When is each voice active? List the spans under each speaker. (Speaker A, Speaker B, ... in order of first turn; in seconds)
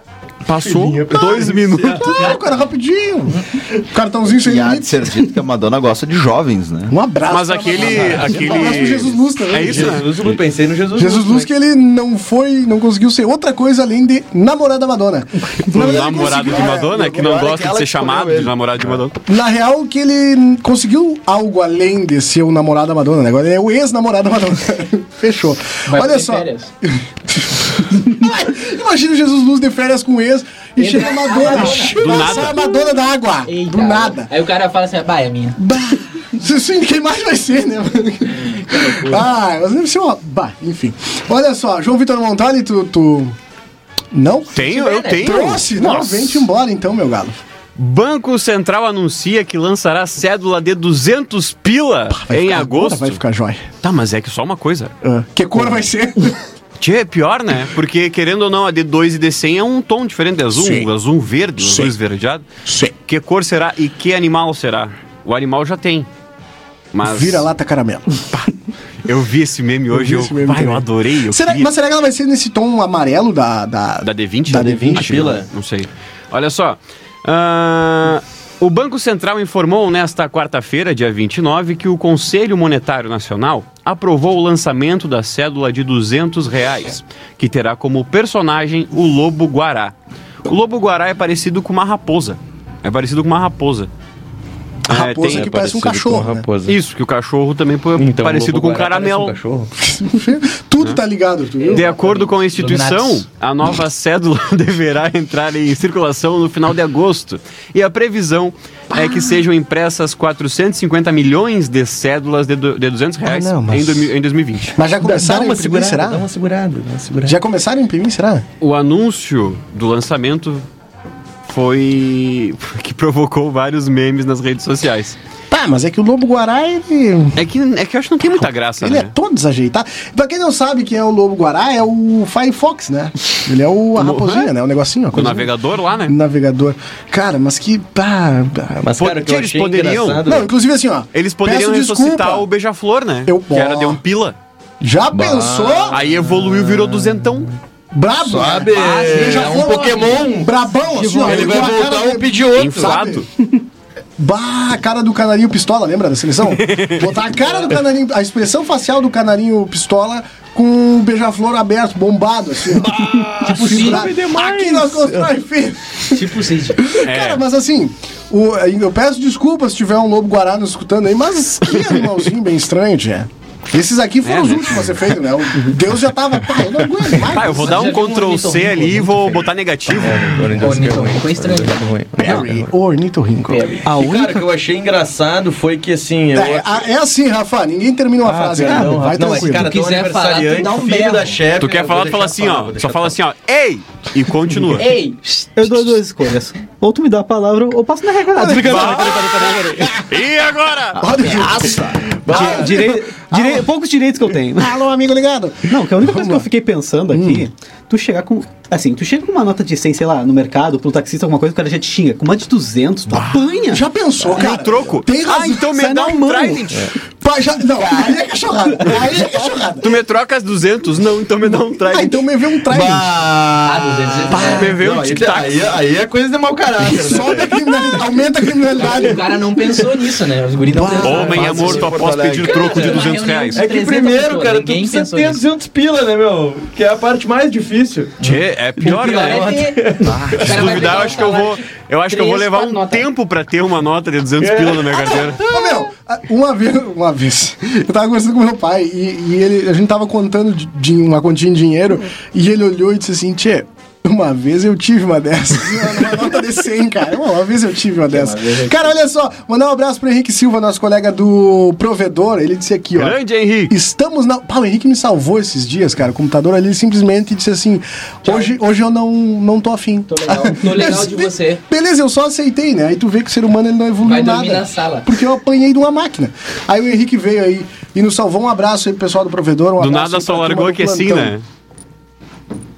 Speaker A: 0.5-2.3, 7.3-10.1, 15.6-19.2, 31.9-32.6, 44.5-46.5, 47.8-53.2, 53.8-54.9, 56.8-62.5, 63.1-66.1, 66.9-67.5, 69.1-71.7, 74.0-89.9, 90.5-93.9, 94.9-95.5, 96.7-99.4, 101.7-114.8, 118.6-120.6, 121.5-125.2, 127.4-129.1, 134.0-134.5, 135.1-136.2, 139.0-140.2, 141.1-144.4, 145.9-147.5, 152.6-153.3, 156.5-157.1, 167.0-167.4, 174.2-175.0, 177.2-180.3, 191.6-194.9, 198.6-199.2, 200.1-201.0, 214.3-216.9, 219.8-222.2, 224.4-225.6, 231.0-233.6, 238.2-239.6, 240.4-245.5, 263.0-263.8, 279.8-281.4
Speaker B: 0.7-2.3, 7.8-11.5, 74.9-75.5, 95.2-96.8, 98.0-99.7, 115.0-117.4, 138.8-140.5, 145.1-147.1, 148.2-150.5, 151.1-153.0, 162.8-165.2, 179.9-182.7, 183.9-186.8, 188.2-193.2, 198.6-199.6, 202.3-202.9, 224.4-228.2, 232.5-238.2, 238.8-241.0, 244.4-245.3
Speaker C: 0.7-5.1, 6.9-10.1, 10.9-17.1, 19.3-34.3, 35.6-43.4, 44.1-44.6, 45.2-47.4, 52.1-53.6, 55.0-56.4, 60.5-60.9, 61.6-61.9, 62.7-63.0, 67.0-68.4, 69.9-75.4, 94.9-96.5, 99.8-102.0, 108.9-109.4, 113.2-114.1, 114.7-116.3, 117.2-118.5, 125.5-127.4, 128.4-135.5, 136.1-138.9, 140.2-142.5, 143.3-144.0, 144.8-146.0, 147.9-153.3, 154.2-166.3, 166.8-177.9, 182.2-183.9, 186.3-189.8, 198.3-200.0, 201.0-203.7, 204.5-206.5, 207.1-207.4, 213.1-215.8, 217.2-220.0, 221.9-223.1, 227.0-229.4, 230.7-231.5, 245.3-281.3
Speaker D: 4.4-6.9, 15.7-18.6, 201.6-201.8, 222.7-224.5, 231.1-232.7
Speaker E: 25.9-26.7, 30.8-32.0, 33.5-35.6, 38.4-39.2, 44.5-45.4, 101.6-103.2, 148.7-150.3, 157.4-157.7, 163.4-164.1, 166.1-166.8, 177.6-179.5, 180.6-182.3, 183.5-183.8, 189.3-191.4, 194.8-195.2, 223.7-224.7, 228.8-231.9, 232.4-235.4, 238.2-243.1, 258.1-258.9, 270.1-271.6, 274.0-275.1
Speaker F: 151.0-151.6, 183.8-184.5, 188.6-188.9, 195.4-200.0, 202.3-204.8, 205.7-213.8, 215.7-216.8